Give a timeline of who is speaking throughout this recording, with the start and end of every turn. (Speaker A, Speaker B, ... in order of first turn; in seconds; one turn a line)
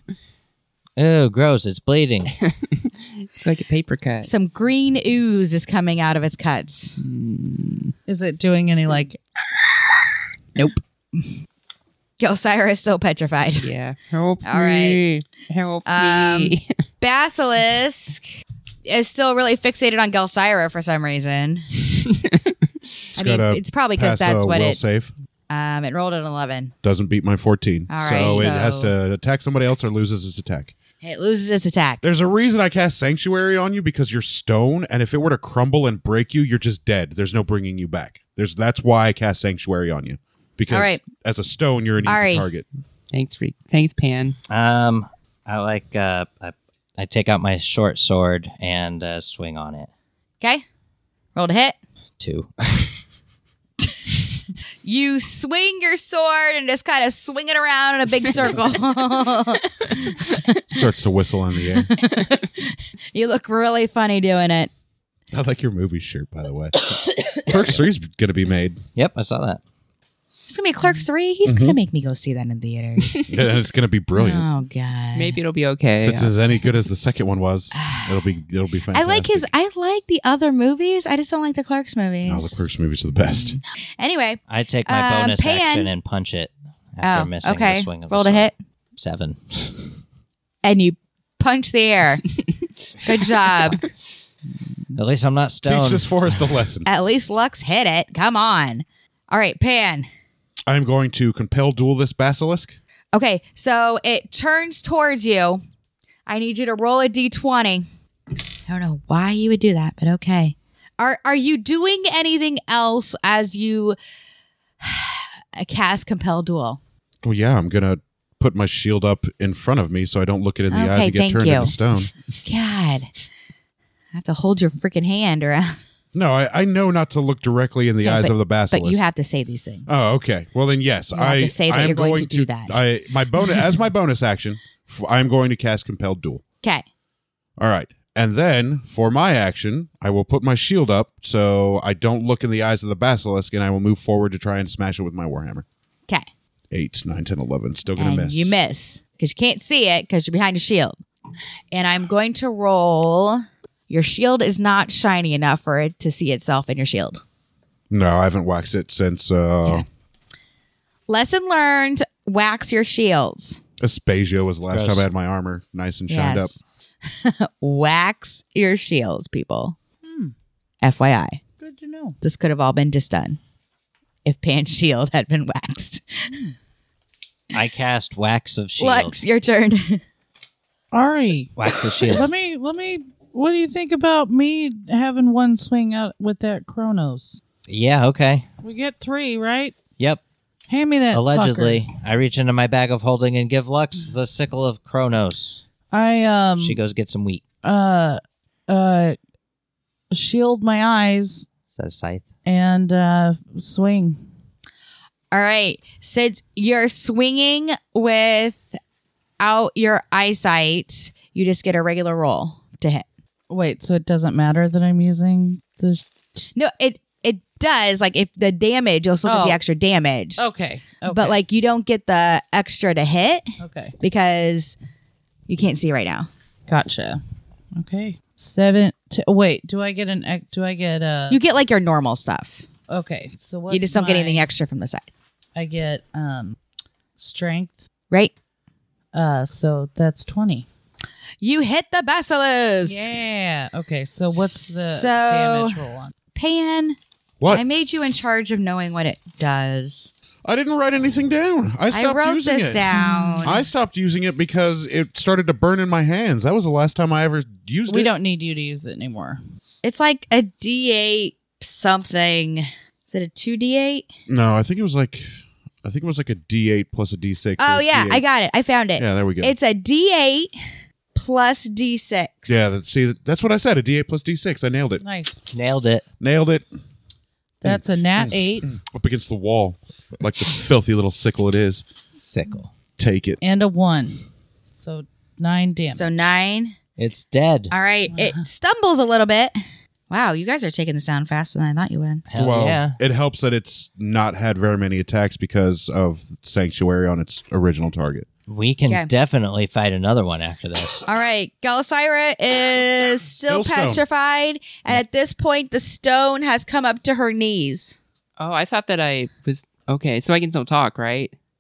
Speaker A: 1.0-2.3
Speaker B: 3.3-4.3
Speaker C: 4.2-7.0
Speaker B: 7.0-7.9
Speaker D: 8.1-9.2
Speaker C: 10.6-11.3
Speaker C: 12.2-13.7
Speaker B: 13.6-16.7
Speaker C: 14.4-15.0
Speaker C: 15.9-18.3
Speaker C: 18.9-21.7
Speaker C: 23.1-24.8
Speaker E: 23.1-25.1
Speaker C: 25.5-26.7
Speaker E: 26.8-30.8
Speaker C: 27.9-28.9
Speaker C: 31.0-32.0
Speaker E: 32.0-42.6
Speaker C: 40.7-41.0
Speaker C: 42.0-42.5
Speaker B: 43.1-44.4
Speaker A: 44.5-49.9
Speaker C: 51.4-51.8
Speaker A: 52.2-53.0
Speaker C: 54.8-60.6
Speaker E: 60.7-61.9
Speaker C: 61.9-64.7
Speaker E: 65.3-68.8
Speaker A: 69.0-69.6
Speaker C: 70.5-73.3
Speaker E: 71.5-71.8
Speaker E: 73.3-74.5
Speaker C: 74.2-75.4
Speaker B: 75.2-76.3
Speaker E: 76.0-79.5
Speaker C: 77.7-78.2
Speaker C: 78.9-82.5
Speaker E: 82.2-83.6
Speaker C: 84.0-85.9
Speaker A: 84.5-89.9
Speaker C: 87.0-88.6
Speaker C: 90.6-92.2
Speaker C: 93.0-93.8
Speaker A: 95.0-96.3
Speaker E: 95.6-96.9
Speaker C: 96.8-100.1
Speaker E: 100.7-102.8
Speaker C: 103.1-105.6
Speaker C: 106.3-107.9
Speaker C: 108.7-114.0
Speaker C: 114.8-116.8
Speaker E: 117.2-122.1
Speaker C: 120.7-121.7
Speaker C: 122.4-123.1
Speaker C: 124.1-125.8
Speaker E: 126.1-129.0
Speaker C: 128.0-130.0
Speaker E: 129.9-136.4
Speaker C: 131.1-132.8
Speaker E: 137.6-145.7
Speaker E: 146.7-148.5
Speaker C: 148.0-151.0
Speaker C: 151.7-157.2
Speaker E: 157.9-159.8
Speaker C: 161.1-163.6
Speaker E: 163.8-166.6
Speaker A: 164.7-165.1
Speaker C: 166.1-169.8
Speaker D: 170.1-170.3
Speaker C: 170.8-171.4
Speaker D: 171.6-172.2
Speaker C: 172.2-173.4
Speaker C: 174.2-176.2
Speaker D: 176.3-176.6
Speaker A: 177.5-179.2
Speaker C: 178.8-180.0
Speaker D: 180.9-187.4
Speaker A: 181.6-182.3
Speaker A: 187.7-188.5
Speaker D: 188.6-189.8
Speaker D: 190.7-191.9
Speaker A: 191.1-195.6
Speaker D: 195.9-196.8
Speaker A: 196.6-197.4
Speaker D: 197.6-199.2
Speaker D: 200.1-201.5
Speaker A: 201.7-202.3
Speaker D: 202.4-204.2
Speaker C: 205.3-208.8
Speaker C: 209.4-213.1
Speaker D: 213.5-216.5
Speaker C: 216.6-220.5
Speaker D: 219.2-219.6
Speaker D: 220.4-221.4
Speaker C: 221.1-223.5
Speaker D: 223.6-223.9
Speaker C: 224.0-224.8
Speaker C: 225.5-226.3
Speaker D: 226.7-227.2
Speaker D: 227.8-231.4
Speaker C: 231.3-232.7
Speaker D: 232.9-234.5
Speaker C: 233.7-235.1
Speaker D: 235.6-236.6
Speaker D: 237.2-237.8
Speaker D: 239.1-240.7
Speaker C: 241.4-243.1
Speaker D: 242.8-246.1
Speaker C: 244.4-245.8
Speaker C: 246.3-247.0
Speaker C: 247.5-250.1
Speaker E: 250.4-252.8
Speaker C: 251.9-253.6
Speaker D: 252.9-253.6
Speaker E: 253.4-258.1
Speaker D: 257.9-259.4
Speaker C: 259.8-264.1
Speaker E: 264.3-265.3
Speaker E: 265.8-268.2
Speaker C: 267.6-270.6
Speaker E: 269.0-269.6
Speaker C: 271.1-272.6
Speaker E: 272.5-275.0
Speaker D: 275.0-275.4
Speaker A: 275.5-276.1
Speaker E: 276.2-276.7
Speaker D: 277.6-278.7
Speaker E: 277.6-281.9
Speaker A: 282.1-282.7
Speaker E: 283.0-283.4
Speaker D: 283.4-286.1
Speaker C: 285.9-286.8
Speaker A: 287.0-287.7
Speaker C: 287.7-289.6
Speaker D: 288.1-288.4
Speaker C: 290.1-292.2
Speaker A: 292.3-293.0
Speaker E: 292.3-298.3
Speaker A: 298.5-301.1
Speaker C: 301.1-308.0
Speaker E: 303.4-304.0
Speaker B: 308.4-311.3